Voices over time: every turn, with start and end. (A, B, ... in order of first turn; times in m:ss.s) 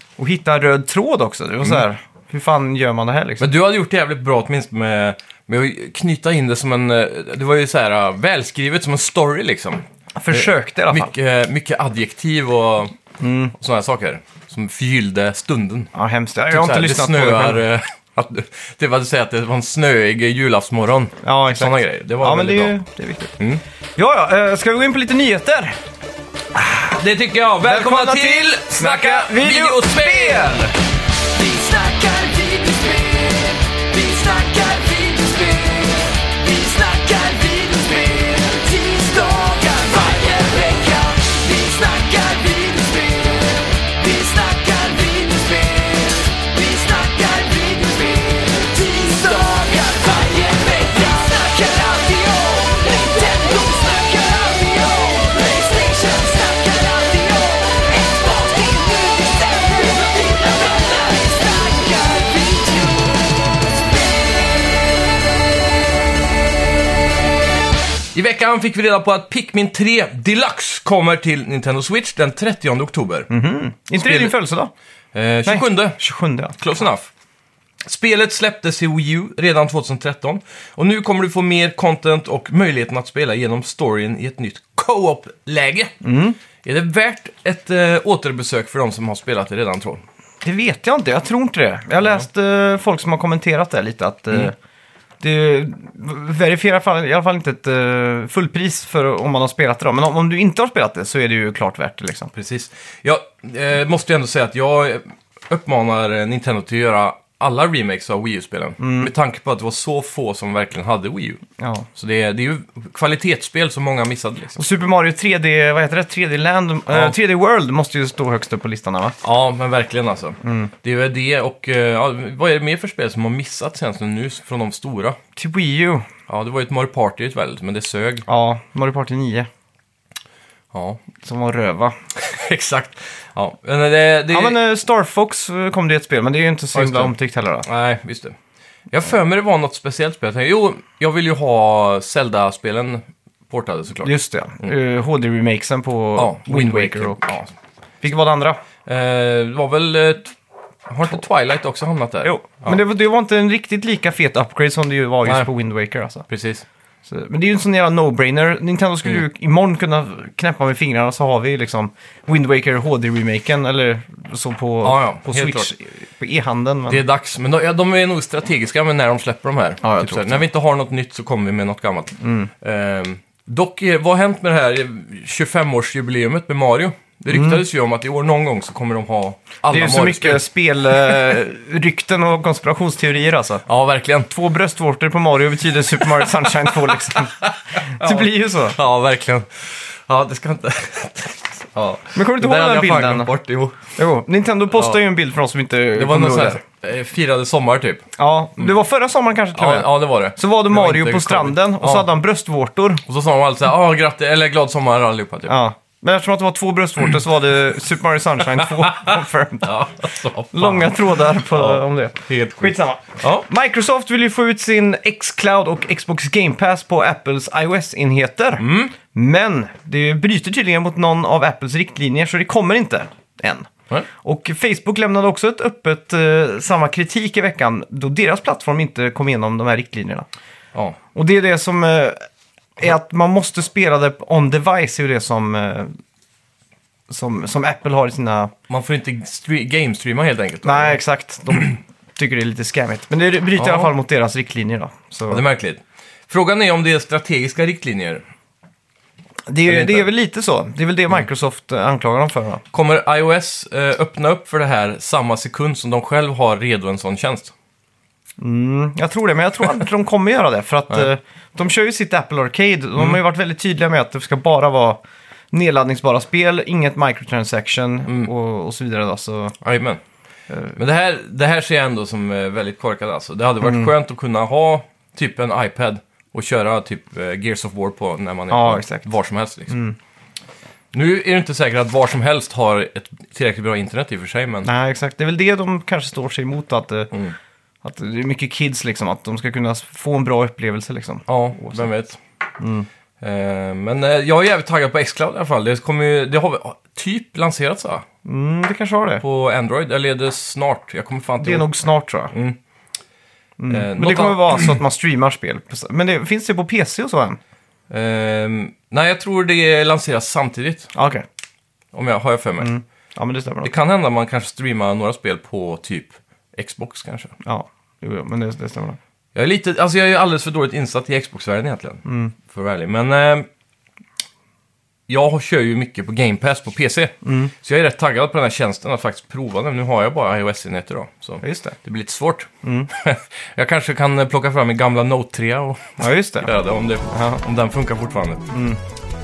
0:00.2-0:03.5 A
0:03.4-0:12.9 B
0:10.2-0:11.1 A
0:13.2-0:13.5 A
0:13.6-0:15.9 B
0:15.9-0:17.6 A
0:16.5-0:22.8 B
0:21.2-0:23.4 A
0:24.0-0:25.8 A
0:26.7-0:30.7 B
0:27.6-0:30.7 A
0:31.4-1:03.0 C
1:08.1-1:13.3 B
1:13.3-1:14.7 A
1:14.0-1:14.4 B
1:15.1-1:16.0 B
1:15.4-1:16.6 A
1:16.6-1:17.1 B
1:17.8-1:25.9 B
1:26.0-1:26.4 A
1:26.6-1:30.0 B
1:30.4-1:34.5 A
1:35.2-1:42.3 A
1:42.3-1:51.4 B
1:48.8-1:49.1 A
1:51.6-1:51.9 A
1:52.0-1:54.6 B
1:54.6-1:59.2 A
1:59.2-2:05.2 B
2:00.4-2:00.7 A
2:05.4-2:06.1 A
2:06.3-2:08.2 B
2:08.3-2:09.5 A
2:10.7-2:11.0 B
2:11.2-2:12.0 A
2:12.2-2:14.6 B
2:14.3-2:17.7 A
2:16.7-2:18.4 B
2:18.9-2:24.7 B
2:24.0-2:27.4 A
2:26.2-2:27.5 B
2:28.0-2:28.6 A
2:28.8-2:30.4 B
2:30.9-2:32.8 B
2:32.2-2:36.3 A
2:36.3-2:36.6 B
2:37.1-2:47.0 A
2:44.8-2:45.7 B
2:46.9-3:00.4 B
2:49.8-2:50.4 A
2:52.2-2:52.5 A
2:57.3-2:57.6 A
2:59.7-3:03.6 A
3:03.7-3:04.3 B
3:04.3-3:07.3 A
3:06.2-3:13.8 B
3:07.9-3:08.8 A
3:12.1-3:13.3 A
3:14.0-3:16.6 A
3:14.7-3:15.0 B
3:16.0-3:18.7 B
3:18.2-3:23.0 A
3:19.5-3:22.1 B
3:23.1-3:25.5 B
3:25.5-3:29.7 A
3:28.6-3:33.5 B
3:30.5-3:43.7 A
3:38.6-3:38.9 B
3:44.2-3:50.3 A
3:51.2-3:52.2 A
3:52.8-3:56.0 A
3:57.1-3:58.5 A
3:58.7-4:01.0 B
4:00.6-4:05.4 A
4:03.6-4:03.9 B
4:05.3-4:08.2 B
4:09.5-4:12.6 A
4:09.7-4:10.1 B
4:12.7-4:17.5 B
4:18.4-4:25.0 A
4:25.5-4:29.6 A
4:29.6-4:30.0 B
4:30.5-4:30.8 A
4:30.8-4:39.7 B
4:33.6-4:33.9 A
4:38.5-4:39.1 A
4:39.7-4:40.0 A
4:40.9-4:44.7 B
4:44.6-4:47.1 A
4:47.8-4:51.9 A
4:51.3-4:52.2 B
4:52.6-4:52.9 A
4:53.2-4:58.0 B
4:58.2-4:59.2 A
4:59.2-5:01.7 B
5:01.4-5:02.3 A
5:02.3-5:02.6 B
5:03.6-5:07.4 A
5:03.7-5:04.8 B
5:07.9-5:10.9 B
5:10.9-5:11.2 A
5:11.9-5:12.7 B
5:12.6-5:13.7 A
5:13.6-5:17.3 B
5:17.4-5:19.0 A
5:19.4-5:23.5 B
5:22.0-5:22.3 A
5:25.1-5:38.5 B
5:27.2-5:27.5 A
5:31.4-5:31.8 A
5:32.6-5:32.9 A
5:36.0-5:36.5 A
5:37.1-5:37.4 A
5:38.5-5:38.8 A